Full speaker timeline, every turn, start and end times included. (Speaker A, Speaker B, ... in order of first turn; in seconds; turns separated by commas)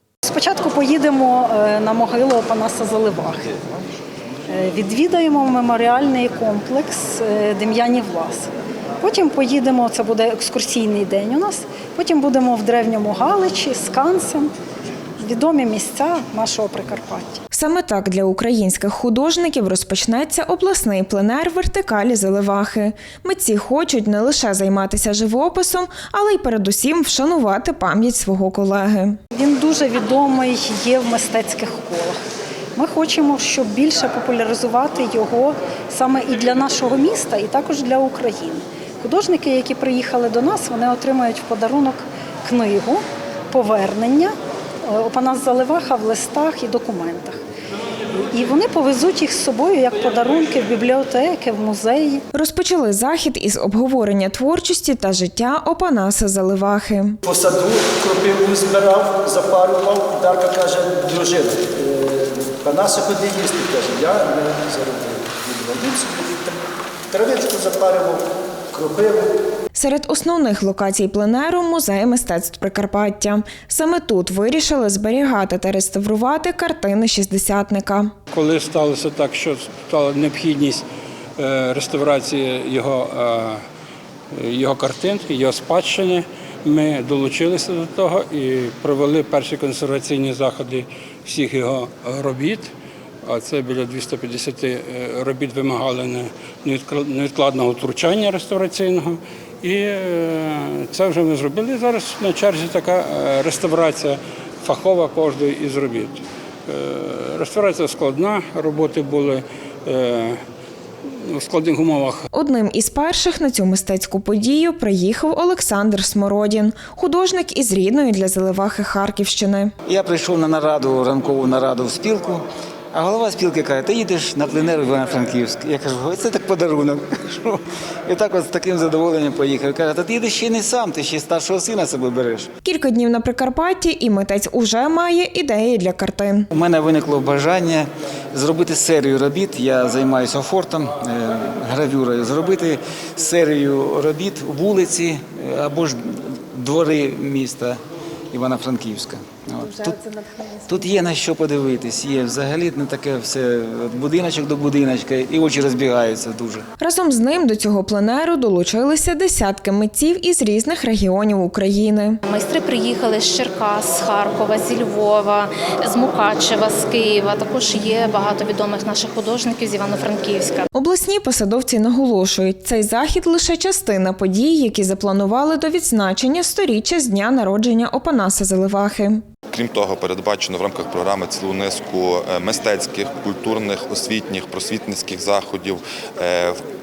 Speaker A: 0.2-3.5, Speaker A: 4.5-8.5, Speaker A: 9.0-14.5, Speaker A: 15.2-17.4, Speaker B: 17.5-29.2, Speaker A: 29.3-32.2, Speaker A: 32.7-47.4, Speaker A: 48.3-52.2, Speaker B: 52.3-57.1, Speaker C: 57.2-66.6, Speaker C: 67.1-69.3, Speaker B: 69.8-78.1, Speaker D: 78.3-80.8, Speaker D: 81.4-83.6, Speaker D: 84.3-92.7, Speaker D: 93.2-110.4, Speaker D: 111.3-112.2, Speaker B: 112.3-119.7, Speaker E: 119.8-132.5, Speaker B: 132.6-136.5, Speaker E: 136.5-147.8, Speaker E: 148.3-156.6, Speaker B: 156.8-162.2, Speaker F: 162.2-170.7, Speaker B: 170.7-179.2, Speaker G: 179.5-186.5